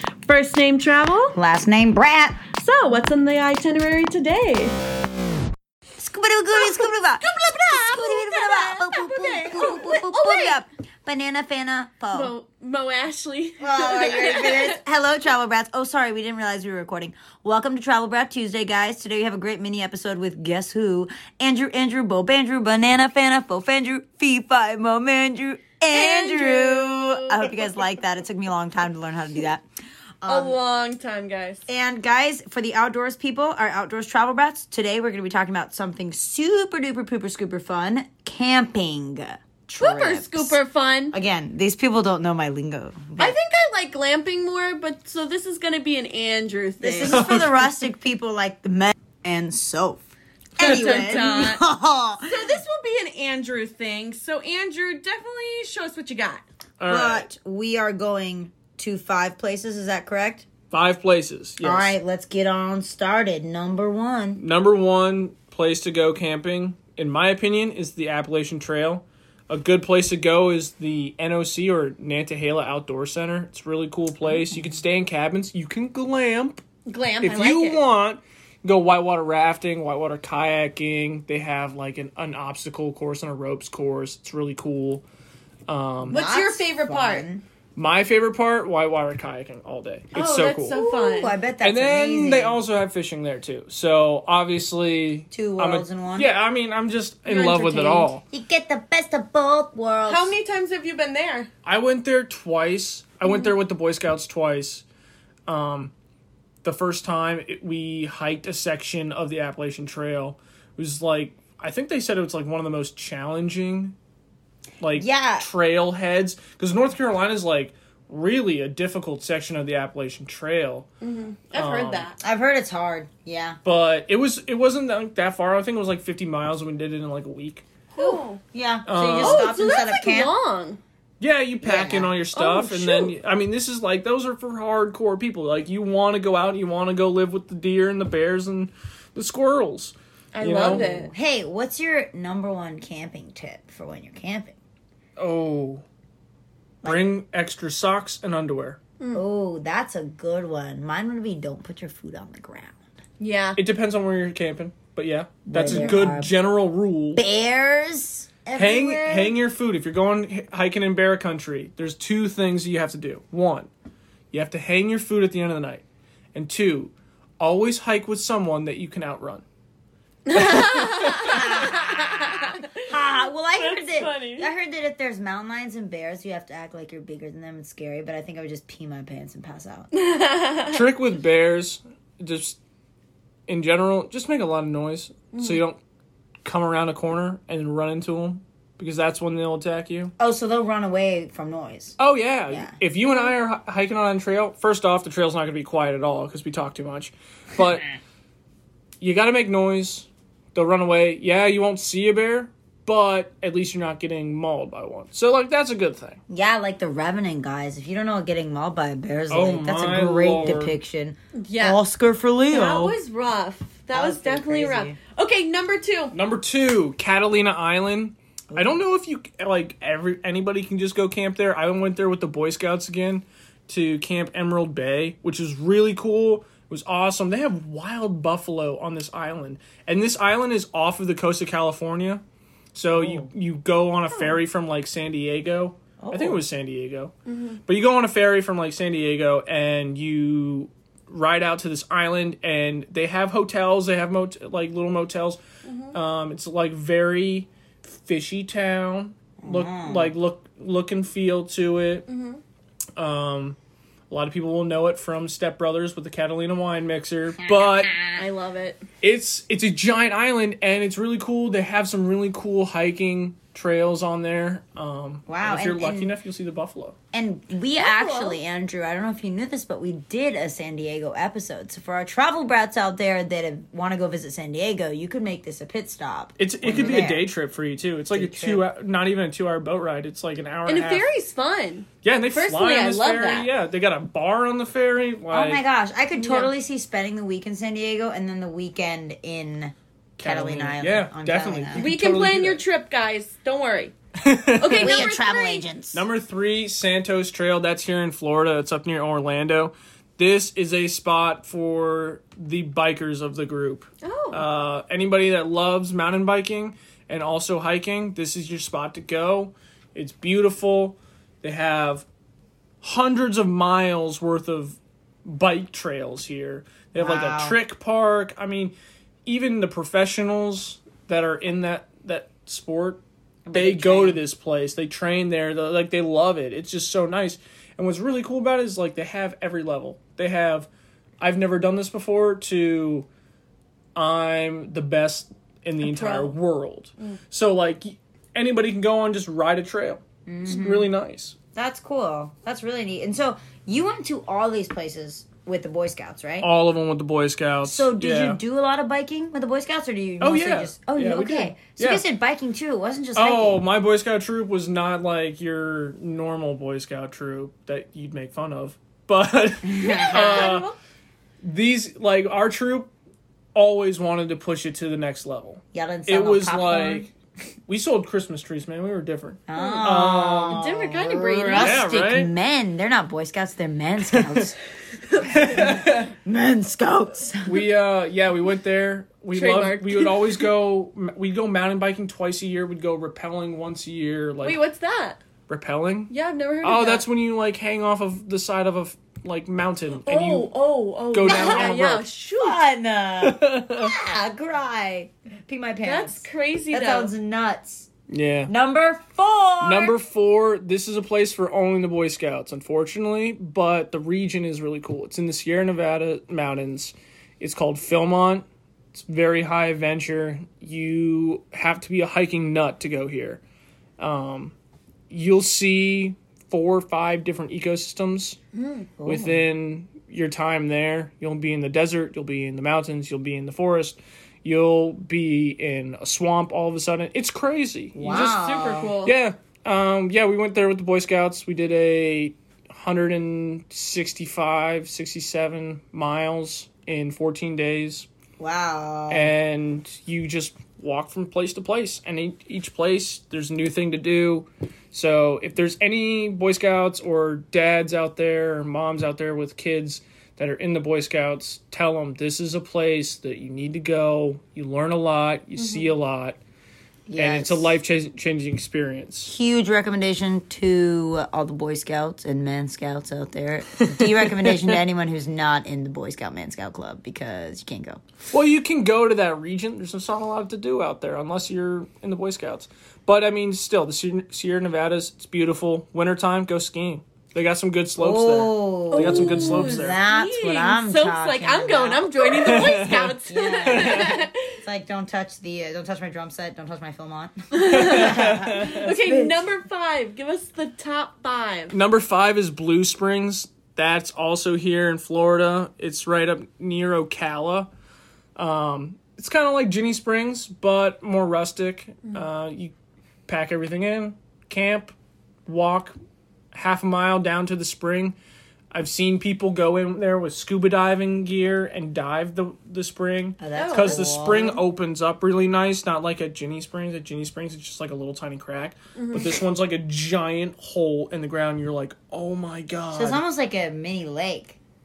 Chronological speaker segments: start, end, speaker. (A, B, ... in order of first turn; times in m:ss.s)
0:00.2-0:01.3 A
0:01.3-0:02.4 B
0:02.5-0:04.8 A
0:06.0-0:12.3 B
0:06.5-0:10.6 A
0:12.1-0:14.8 A
0:13.6-0:29.6 B
0:25.9-0:27.7 A
0:30.2-0:30.6 B
0:30.3-0:31.6 A
0:31.7-0:40.6 B
0:39.8-0:41.1 A
0:41.1-0:43.3 B
0:43.2-0:47.4 A
0:46.8-0:50.0 B
0:47.0-0:47.7 C
0:50.6-0:52.5 B
0:50.6-0:51.6 A
0:52.2-0:56.4 A
0:56.8-0:57.3 C
0:56.9-1:00.5 B
1:00.7-1:01.9 C
1:01.6-1:04.4 B
1:04.4-1:16.6 C
1:16.8-1:17.8 A
1:17.2-1:25.0 C
1:25.7-1:26.2 C
1:26.0-1:27.4 B
1:26.1-1:27.3 A
1:27.8-1:30.8 C
1:30.1-1:31.4 A
1:30.6-1:32.6 B
1:31.6-1:38.2 C
1:35.3-1:36.3 B
1:37.2-1:38.1 A
1:38.3-1:40.4 B
1:40.0-1:41.5 A
1:41.6-1:44.8 C
1:45.5-1:45.9 C
1:46.6-1:54.0 C
1:54.8-2:00.9 C
1:54.9-1:55.5 B
2:01.0-2:02.2 A
2:01.5-2:02.1 C
2:02.2-2:03.6 B
2:03.6-2:07.7 C
2:08.0-2:08.4 A
2:08.0-2:10.3 B
2:08.8-2:09.5 C
2:09.2-2:10.8 A
2:11.2-2:20.9 C
2:11.6-2:12.1 B
2:12.3-2:13.2 A
2:20.3-2:21.1 A
2:20.6-2:24.6 B
2:25.2-2:25.8 C
2:26.8-2:27.2 B
2:26.8-2:28.8 C
2:29.1-2:32.8 B
2:33.2-2:33.6 A
2:33.6-2:37.2 C
2:35.4-2:36.3 B
2:35.7-2:36.1 A
2:37.1-2:39.4 B
2:38.5-2:43.7 C
2:44.3-2:49.4 C
2:50.3-2:52.9 A
2:51.2-2:59.9 B
2:53.5-2:54.5 A
2:59.9-3:00.8 A
3:00.6-3:02.6 C
3:03.5-3:05.8 C
3:05.3-3:05.6 A
3:06.4-3:10.1 C
3:10.2-3:12.0 B
3:12.0-3:17.9 C
3:12.5-3:12.8 B
3:19.0-3:26.2 C
3:26.3-3:33.0 B
3:29.3-3:30.8 C
3:31.4-3:31.8 A
3:32.5-3:36.1 A
3:33.9-3:35.0 B
3:36.1-3:52.2 C
3:52.7-3:57.1 C
3:52.9-3:53.3 B
3:54.1-3:54.4 A
3:56.0-3:56.4 B
3:57.3-3:57.6 A
3:57.6-4:05.4 C
4:05.6-4:06.0 A
4:05.9-4:12.1 C
4:09.4-4:10.1 B
4:12.1-4:12.4 A
4:13.0-4:13.6 C
4:14.1-4:18.0 C
4:17.7-4:18.1 B
4:18.1-4:18.8 A
4:19.0-4:27.0 C
4:25.3-4:26.1 B
4:27.1-4:37.3 B
4:27.8-4:28.4 A
4:36.4-4:41.1 C
4:38.1-4:38.7 B
4:40.6-4:43.5 A
4:42.0-4:45.6 C
4:45.3-4:51.9 B
4:46.1-4:46.5 A
4:50.2-4:52.6 C
4:51.7-4:53.9 A
4:54.2-4:55.0 C
4:54.6-4:55.6 A
4:54.8-4:56.0 B
4:55.9-5:12.1 C
5:04.0-5:04.4 A
5:12.8-5:18.7 C
5:16.9-5:17.6 B
5:19.2-5:30.7 C
5:23.4-5:24.2 B
5:31.2-5:33.1 C
5:34.0-5:41.4 C
5:35.8-5:36.4 A
5:40.2-5:40.9 B
5:41.5-5:46.5 B
5:46.4-5:48.4 C
5:47.6-5:53.6 B
5:50.2-5:52.0 C
5:53.1-6:00.7 C
5:59.6-6:00.5 B
5:59.8-6:00.8 A
6:01.4-6:02.9 C
6:03.5-6:07.1 C
6:05.7-6:07.0 B
6:07.7-6:10.6 C
6:09.5-6:14.6 B
6:10.5-6:11.8 A
6:11.3-6:12.3 C
6:15.2-6:17.6 B
6:15.2-6:16.1 C
6:17.4-6:24.6 C
6:19.3-6:20.5 A
6:24.4-6:25.2 A
6:25.5-6:30.5 C
6:26.1-6:27.0 A
6:30.0-6:32.7 A
6:31.1-6:32.1 C
6:31.3-6:31.7 B
6:32.4-6:37.9 B
6:33.2-6:33.9 C
6:35.8-6:37.1 A
6:38.1-6:38.5 C
6:38.5-6:40.0 B
6:39.6-6:53.4 C
6:54.0-6:54.5 C
6:55.1-6:58.4 C
6:58.5-6:58.9 A
6:59.0-6:59.4 B
6:59.0-7:08.4 C
7:07.9-7:08.9 B
7:08.0-7:09.1 A
7:09.0-7:18.1 C
7:18.4-7:19.3 B
7:19.1-7:36.4 C
7:35.6-7:35.9 A
7:37.1-7:37.8 B
7:37.2-7:39.3 C
7:39.2-7:48.0 B
7:48.3-8:00.0 C
7:58.0-8:02.2 B
7:58.9-8:04.6 A
8:02.3-8:04.2 C
8:03.3-8:09.3 B
8:07.5-8:11.8 A
8:07.7-8:08.8 C
8:11.7-8:17.7 C
8:18.4-8:22.7 C
8:23.3-8:24.9 C
8:25.5-8:25.9 C
8:26.5-8:28.2 C
8:28.7-8:43.2 C
8:33.4-8:34.6 B
8:33.5-8:34.2 A
8:39.0-8:39.4 A
8:42.9-8:44.6 B